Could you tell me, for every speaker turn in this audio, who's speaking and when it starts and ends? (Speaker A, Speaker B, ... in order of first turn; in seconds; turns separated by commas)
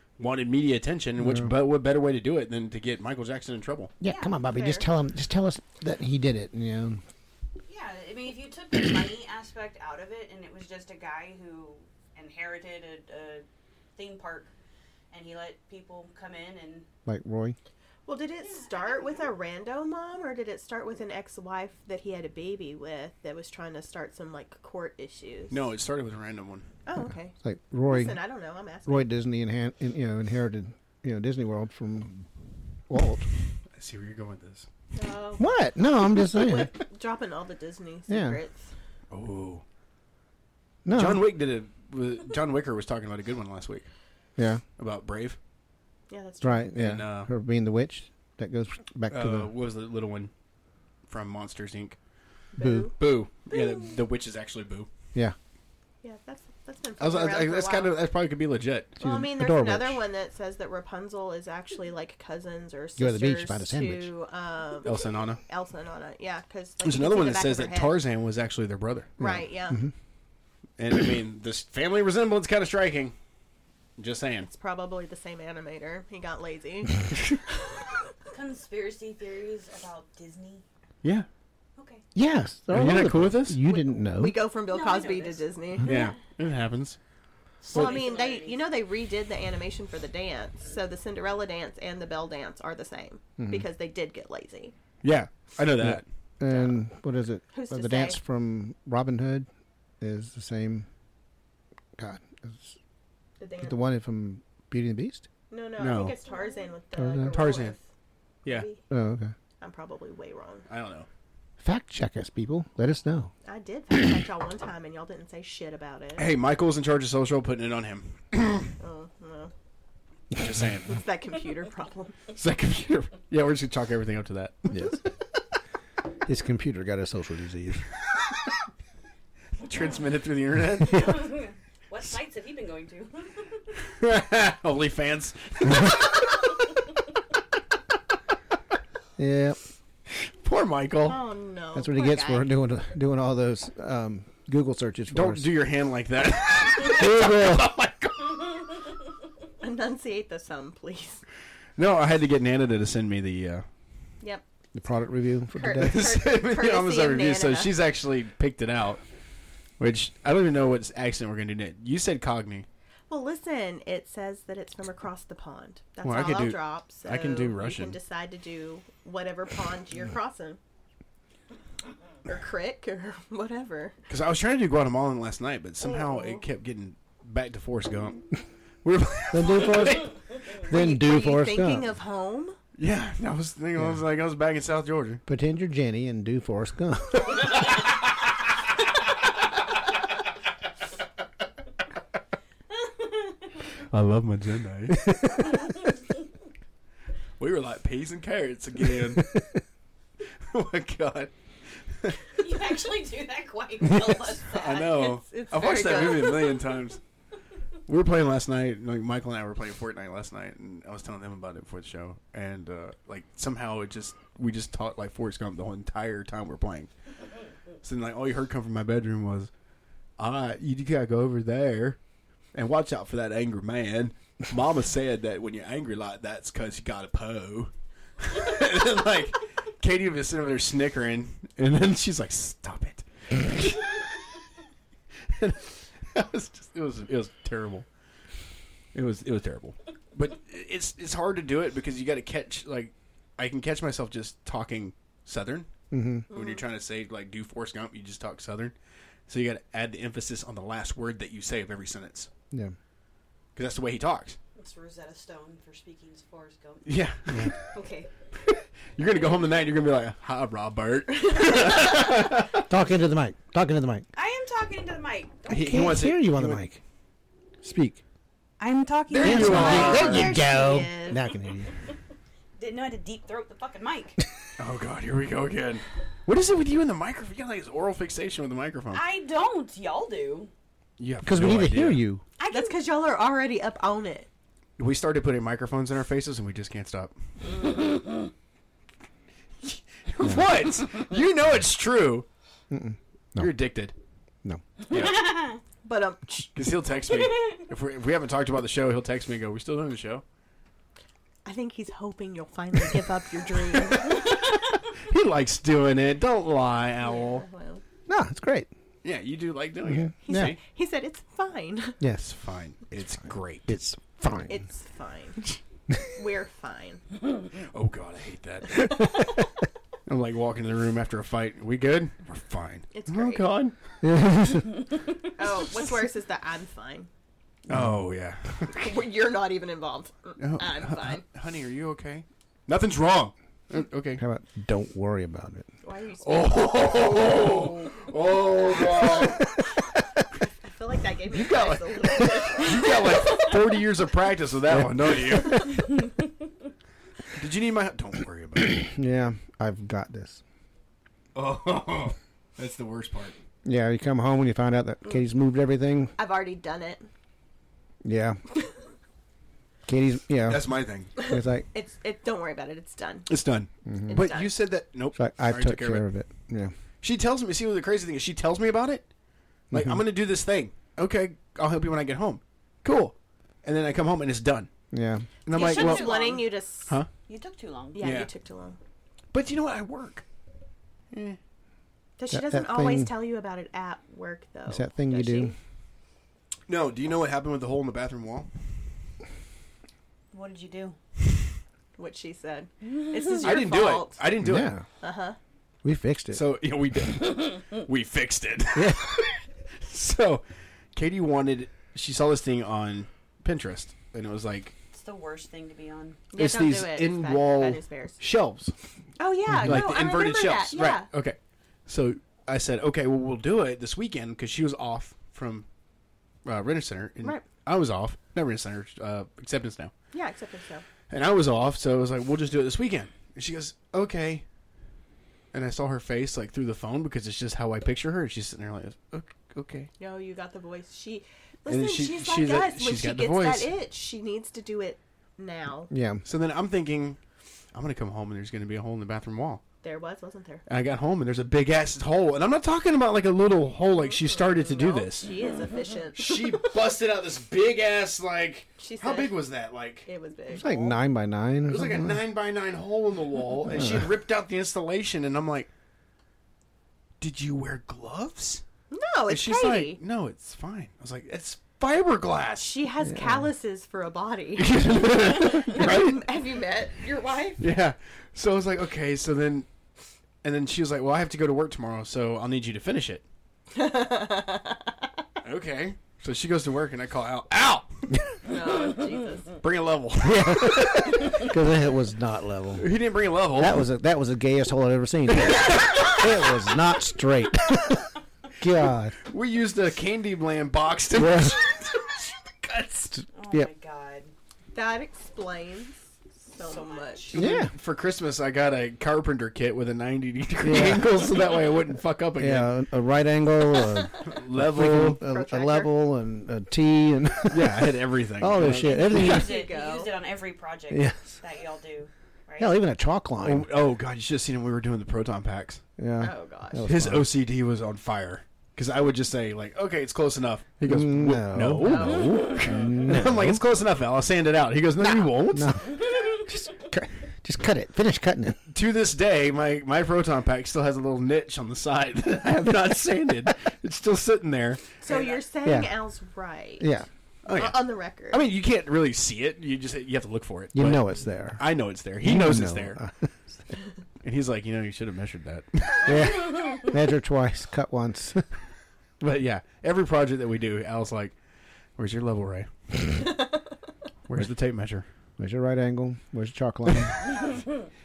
Speaker A: 0.2-3.9, Speaker B: 1.2-1.5, Speaker B: 4.0-7.0, Speaker C: 4.0-4.3, Speaker D: 4.5-4.9, Speaker C: 7.7-14.5, Speaker C: 15.1-16.9, Speaker B: 17.1-17.6, Speaker D: 18.1-25.6, Speaker C: 18.5-19.0, Speaker A: 25.5-26.6, Speaker D: 26.9-27.3, Speaker B: 27.4-28.2, Speaker D: 27.9-29.1, Speaker B: 28.9-32.2, Speaker B: 32.9-33.3, Speaker A: 33.8-34.7, Speaker D: 35.0-38.7, Speaker B: 35.4-36.7, Speaker B: 38.1-38.4, Speaker A: 39.1-39.6, Speaker B: 40.9-41.3, Speaker A: 40.9-43.9, Speaker B: 44.4-44.6, Speaker A: 44.8-45.4, Speaker D: 46.1-46.8, Speaker B: 46.4-49.5, Speaker A: 46.8-47.3, Speaker A: 49.1-50.3, Speaker A: 51.0-52.0, Speaker D: 52.5-53.0, Speaker B: 52.6-52.9, Speaker A: 53.0-54.9, Speaker D: 56.0-57.9, Speaker A: 57.0-59.0, Speaker B: 59.0-60.0, Speaker D: 59.0-68.0, Speaker B: 63.0-64.1, Speaker A: 64.8-65.4, Speaker A: 66.8-69.1, Speaker D: 69.2-69.9, Speaker B: 69.2-69.9, Speaker A: 70.8-73.1, Speaker A: 74.0-74.5, Speaker D: 74.5-77.2, Speaker C: 78.3-80.6, Speaker C: 81.8-82.0, Speaker B: 82.1-84.4, Speaker A: 82.7-83.6, Speaker D: 83.7-86.0, Speaker C: 84.7-86.1, Speaker A: 85.8-87.0, Speaker C: 87.6-88.6, Speaker D: 87.7-94.7, Speaker B: 93.4-93.7, Speaker A: 95.0-96.0, Speaker B: 95.8-99.5, Speaker D: 97.5-98.2, Speaker B: 100.0-100.9, Speaker B: 102.0-102.8, Speaker D: 103.4-103.8, Speaker B: 103.6-105.3, Speaker D: 105.5-107.8, Speaker A: 105.8-106.2, Speaker B: 107.0-107.3, Speaker A: 107.3-107.8, Speaker D: 108.5-108.8, Speaker B: 108.9-109.3, Speaker D: 109.6-110.7, Speaker A: 110.7-111.1, Speaker B: 111.6-113.3, Speaker D: 113.5-116.3, Speaker A: 116.2-118.7, Speaker D: 118.8-119.5, Speaker A: 120.3-121.0, Speaker D: 120.9-122.1, Speaker A: 122.3-124.9, Speaker B: 124.7-125.0, Speaker B: 126.2-127.9, Speaker A: 129.6-131.3, Speaker C: 130.9-133.6, Speaker A: 133.9-136.1, Speaker B: 139.2-139.6, Speaker A: 140.4-141.2, Speaker D: 141.0-142.5, Speaker B: 141.8-145.5, Speaker A: 145.1-148.5, Speaker B: 146.9-147.6, Speaker D: 149.6-151.2, Speaker A: 151.8-153.6, Speaker B: 154.7-156.2, Speaker D: 155.5-157.7, Speaker A: 155.8-159.0, Speaker A: 159.8-162.7, Speaker D: 163.1-170.6, Speaker A: 166.0-168.0, Speaker D: 172.2-174.0, Speaker A: 174.1-178.2, Speaker D: 175.8-176.4, Speaker A: 178.8-180.1, Speaker B: 179.3-181.9, Speaker D: 180.7-182.5, Speaker A: 182.8-185.2, Speaker B: 185.3-187.3, Speaker A: 193.7-195.6, Speaker B: 194.9-195.5, Speaker A: 197.4-199.4, Speaker A: 200.5-201.3, Speaker A: 201.9-202.3, Speaker C: 202.3-204.9, Speaker A: 204.5-207.0, Speaker D: 204.5-206.6, Speaker A: 207.9-216.9, Speaker A: 217.8-219.5, Speaker A: 220.2-222.0, Speaker A: 222.5-233.9, Speaker A: 235.3-237.9, Speaker A: 238.9-245.7, Speaker B: 245.9-246.3, Speaker A: 246.3-248.8, Speaker D: 246.3-246.6, Speaker A: 249.3-252.3, Speaker A: 253.6-254.4, Speaker C: 254.6-256.9, Speaker A: 256.9-257.5, Speaker D: 257.8-258.1, Speaker A: 258.5-262.6, Speaker B: 262.7-264.1, Speaker C: 264.1-266.0, Speaker A: 265.5-266.6, Speaker B: 265.5-266.8, Speaker B: 267.6-268.0, Speaker C: 268.6-270.2, Speaker A: 269.1-270.3, Speaker D: 269.2-271.3, Speaker B: 269.2-271.7, Speaker C: 272.6-274.2, Speaker A: 274.6-279.0, Speaker C: 278.9-280.5, Speaker A: 281.0-282.0, Speaker B: 281.2-282.2, Speaker C: 282.4-282.8, Speaker D: 282.5-284.3, Speaker A: 284.8-287.1, Speaker A: 289.6-292.3, Speaker B: 292.7-293.5, Speaker A: 293.4-293.9, Speaker A: 294.9-295.3, Speaker C: 294.9-295.6, Speaker D: 295.8-296.5, Speaker A: 296.5-300.2, Speaker D: 301.4-304.3, Speaker A: 304.9-307.5, Speaker D: 307.0-307.8, Speaker B: 308.1-308.7, Speaker A: 309.0-310.6, Speaker B: 309.9-310.6, Speaker D: 310.2-312.0, Speaker B: 312.0-312.2, Speaker A: 312.2-313.7, Speaker B: 313.7-314.6, Speaker D: 314.5-315.4, Speaker D: 316.1-317.0, Speaker A: 317.6-319.2, Speaker A: 320.1-323.8, Speaker D: 322.9-323.5, Speaker B: 324.0-324.8, Speaker D: 325.4-327.1, Speaker A: 327.7-328.9, Speaker B: 327.7-328.0, Speaker D: 328.7-331.2, Speaker A: 330.4-334.2, Speaker B: 334.2-335.7, Speaker D: 335.8-338.0, Speaker A: 336.2-339.6, Speaker D: 340.6-343.2, Speaker A: 341.3-345.9, Speaker B: 344.7-345.6, Speaker A: 347.3-348.8, Speaker B: 348.8-350.4, Speaker A: 351.3-353.3, Speaker B: 353.6-356.1, Speaker D: 356.2-357.1, Speaker B: 358.0-358.4, Speaker B: 359.9-361.7, Speaker A: 360.5-361.1, Speaker D: 361.2-363.3, Speaker A: 363.3-366.1, Speaker B: 363.9-364.2, Speaker D: 364.1-364.5, Speaker B: 365.1-366.7, Speaker A: 367.0-369.1, Speaker A: 369.7-374.7, Speaker B: 369.7-370.0, Speaker B: 374.9-375.3, Speaker A: 375.4-376.1, Speaker C: 375.5-376.5, Speaker D: 375.5-377.0, Speaker C: 377.3-378.2, Speaker D: 377.9-378.8, Speaker A: 378.0-378.3, Speaker A: 379.3-380.2, Speaker A: 381.1-381.4, Speaker D: 382.2-385.5, Speaker B: 382.3-383.1, Speaker B: 384.7-385.5, Speaker A: 386.7-388.5, Speaker C: 390.3-391.0, Speaker D: 392.0-394.2, Speaker A: 393.4-394.7, Speaker B: 394.4-394.8, Speaker D: 395.0-395.4, Speaker B: 395.8-396.4, Speaker A: 396.3-404.7, Speaker B: 398.8-399.1, Speaker C: 404.9-406.2, Speaker D: 406.3-408.2, Speaker A: 406.3-408.7, Speaker D: 409.2-411.1, Speaker B: 409.5-409.9, Speaker A: 409.6-415.7, Speaker A: 416.4-419.9, Speaker D: 420.1-420.8, Speaker A: 421.1-424.4, Speaker A: 425.5-429.9, Speaker D: 430.0-435.9, Speaker A: 431.7-433.7, Speaker B: 435.9-436.2, Speaker A: 436.2-437.2, Speaker A: 437.7-439.6, Speaker D: 439.8-440.6, Speaker A: 440.7-445.3, Speaker D: 444.2-446.7, Speaker A: 446.2-450.1, Speaker D: 448.8-449.4, Speaker D: 450.1-451.0, Speaker B: 450.5-452.2, Speaker A: 451.7-455.7, Speaker B: 453.7-454.1, Speaker A: 457.2-458.6, Speaker D: 458.9-460.0, Speaker A: 459.3-462.7, Speaker D: 462.6-467.6, Speaker B: 463.1-463.5, Speaker A: 464.6-466.2, Speaker A: 467.6-469.7, Speaker A: 470.4-473.2, Speaker D: 473.7-475.0, Speaker A: 475.4-477.9, Speaker D: 478.5-479.6, Speaker A: 479.6-481.5, Speaker B: 480.2-482.9, Speaker A: 482.8-483.9, Speaker B: 483.5-487.9, Speaker A: 485.3-486.3, Speaker B: 488.6-489.1, Speaker A: 489.2-493.2, Speaker B: 491.1-491.6, Speaker B: 493.1-493.7, Speaker C: 493.3-494.3, Speaker D: 494.7-495.9, Speaker D: 496.5-497.4, Speaker C: 496.6-497.4, Speaker A: 497.3-502.7, Speaker B: 497.3-497.7, Speaker B: 500.6-501.2, Speaker B: 502.4-507.9, Speaker A: 504.2-505.2, Speaker D: 505.2-505.9, Speaker A: 507.5-508.9, Speaker B: 508.4-509.5, Speaker D: 508.6-510.1, Speaker C: 509.0-512.7, Speaker B: 510.9-511.2, Speaker B: 512.6-513.7, Speaker A: 513.4-515.8, Speaker B: 516.0-517.3, Speaker D: 516.2-516.9, Speaker A: 516.9-526.0, Speaker B: 520.9-523.6, Speaker D: 521.8-522.6, Speaker B: 525.0-528.6, Speaker A: 528.7-534.9, Speaker D: 535.0-537.0, Speaker C: 535.0-535.4, Speaker B: 535.6-536.0, Speaker B: 536.8-537.1, Speaker A: 537.5-541.0, Speaker D: 537.5-538.5, Speaker B: 540.7-541.6, Speaker A: 541.5-543.0, Speaker B: 542.2-543.1, Speaker A: 544.2-546.4, Speaker B: 546.0-548.5, Speaker A: 549.2-551.3, Speaker A: 552.0-553.2, Speaker A: 554.3-555.0, Speaker B: 555.4-557.2